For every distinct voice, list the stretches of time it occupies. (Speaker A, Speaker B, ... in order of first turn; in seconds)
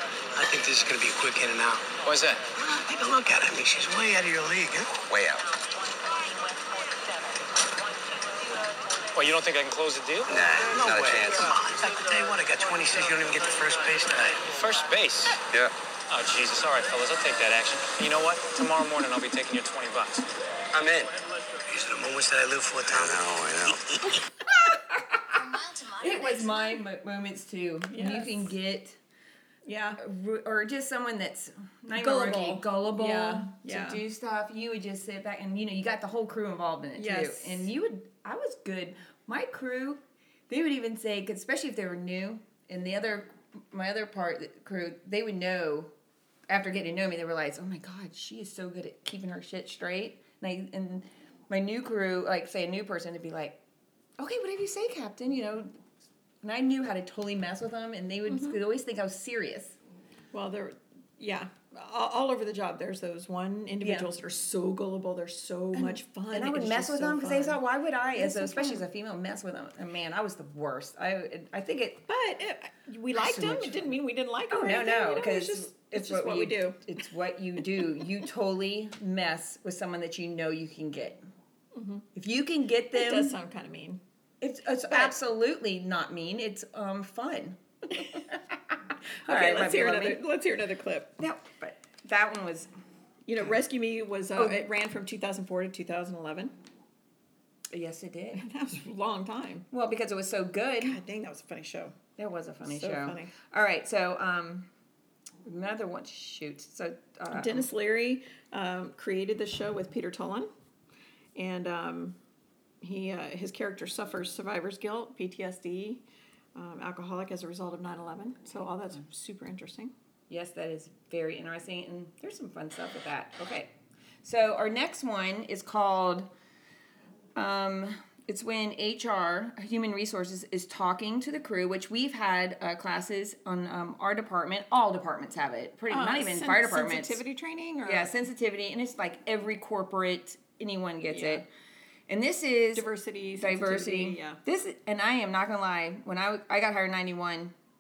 Speaker A: 0.3-1.9, 2.5-4.9, 10.7-14.4, 21.7-23.2
Speaker B: 2.0-2.4, 9.1-10.3, 14.5-15.4, 16.1-20.2
Speaker C: 5.0-5.4, 10.3-11.5, 20.7-21.1, 22.9-23.8
Speaker D: 24.9-29.0, 30.0-45.9, 46.5-53.6, 54.2-55.8, 56.4-59.8, 63.8-64.1, 65.7-72.0, 73.2-73.9, 74.5-81.2, 82.1-83.3, 84.4-87.6, 89.2-90.2, 91.2-92.7, 94.3-94.6, 97.7-98.5, 99.7-101.0, 102.2-104.7, 105.4-107.7, 120.3-126.3, 127.3-137.2, 137.8-141.5, 142.1-147.5
Speaker E: 27.9-28.5, 29.6-30.0, 31.9-34.0, 37.0-37.7, 58.3-58.6, 60.3-67.6, 68.1-68.8, 72.1-76.8, 81.7-82.0, 82.9-84.0, 84.9-85.2, 89.2-91.1, 93.3-96.5, 98.4-99.7, 100.8-102.0, 102.6-103.3, 107.3-110.5, 111.3-112.2, 112.8-116.0, 116.5-119.9, 135.9-138.1, 141.1-141.4, 142.7-144.4